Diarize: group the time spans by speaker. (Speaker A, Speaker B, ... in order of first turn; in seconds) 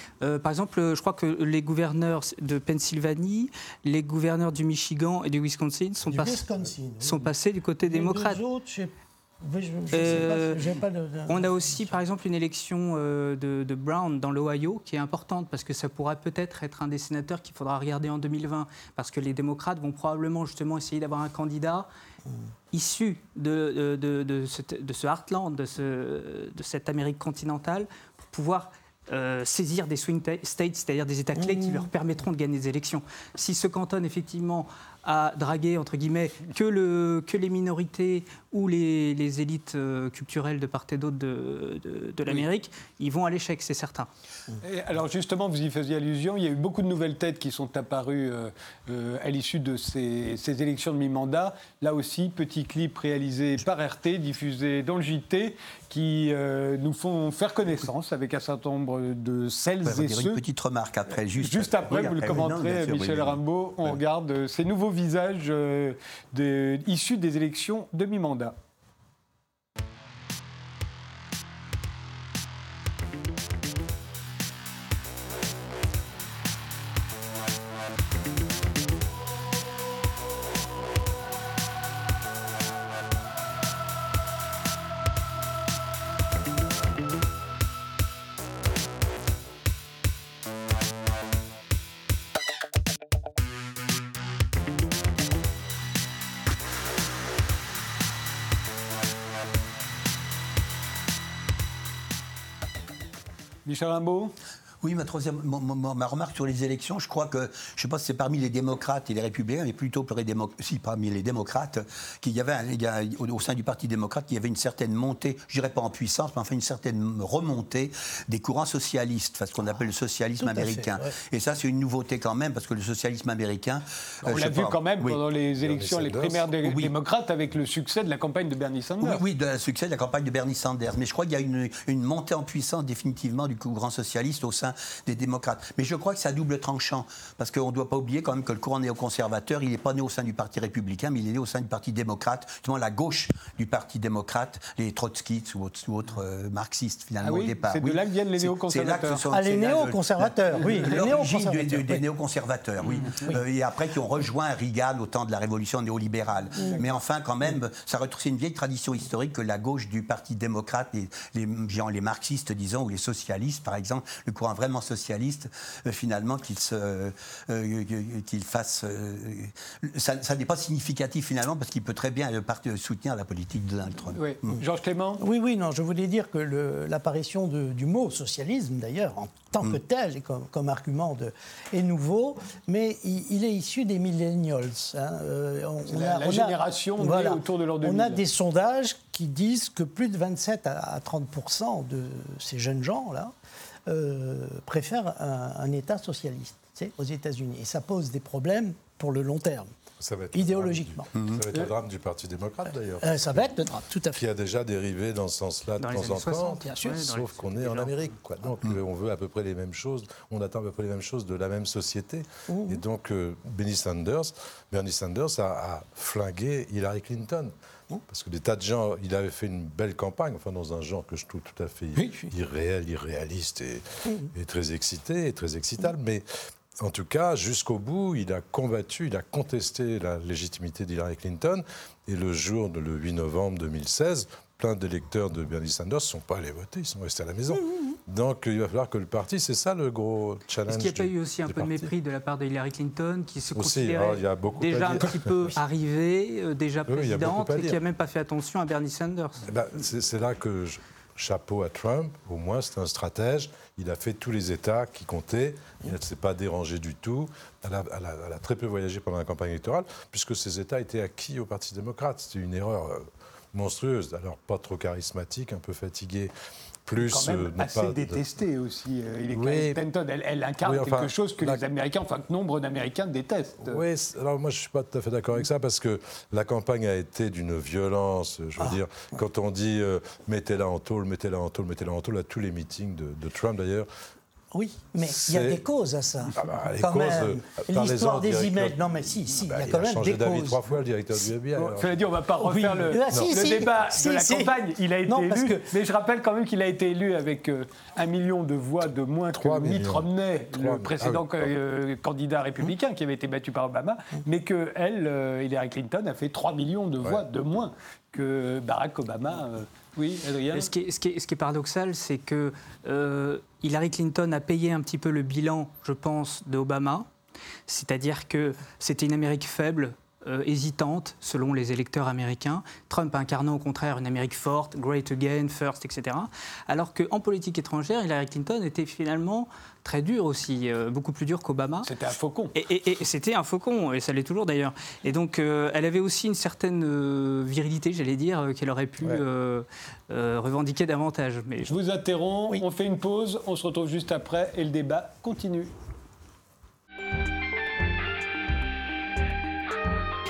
Speaker A: 0.2-6.4, 7.0-8.4, 9.9-10.7, 11.3-21.9, 22.7-44.1, 205.8-208.0, 240.7-249.4, 310.5-317.1, 317.7-331.9, 332.5-341.7
Speaker B: 6.1-7.3, 7.8-12.0, 31.4-31.9, 120.4-121.2, 149.3-152.0, 156.6-156.8, 175.2-193.3, 193.9-199.7, 200.3-201.1, 203.0-204.2, 206.6-206.9, 212.5-212.8, 222.0-222.3, 278.6-279.2, 284.5-290.6, 292.4-295.6
Speaker C: 44.6-60.4, 61.4-68.6, 103.7-104.3, 124.2-129.2, 147.2-149.2, 150.6-151.2, 174.1-175.2, 185.9-188.2, 267.0-273.8, 291.5-310.7, 331.8-332.6, 341.7-345.7
Speaker D: 59.9-64.0, 104.8-125.2, 126.7-126.9, 129.0-174.6, 201.2-201.4
Speaker E: 125.6-126.5, 200.0-203.5, 204.1-217.5, 218.1-226.3, 226.8-241.9, 243.6-245.6, 246.9-247.8, 249.5-266.3, 266.9-268.2, 269.3-269.8, 270.6-271.6, 273.6-283.9, 285.0-285.6, 286.4-292.0, 293.1-293.5, 299.4-301.5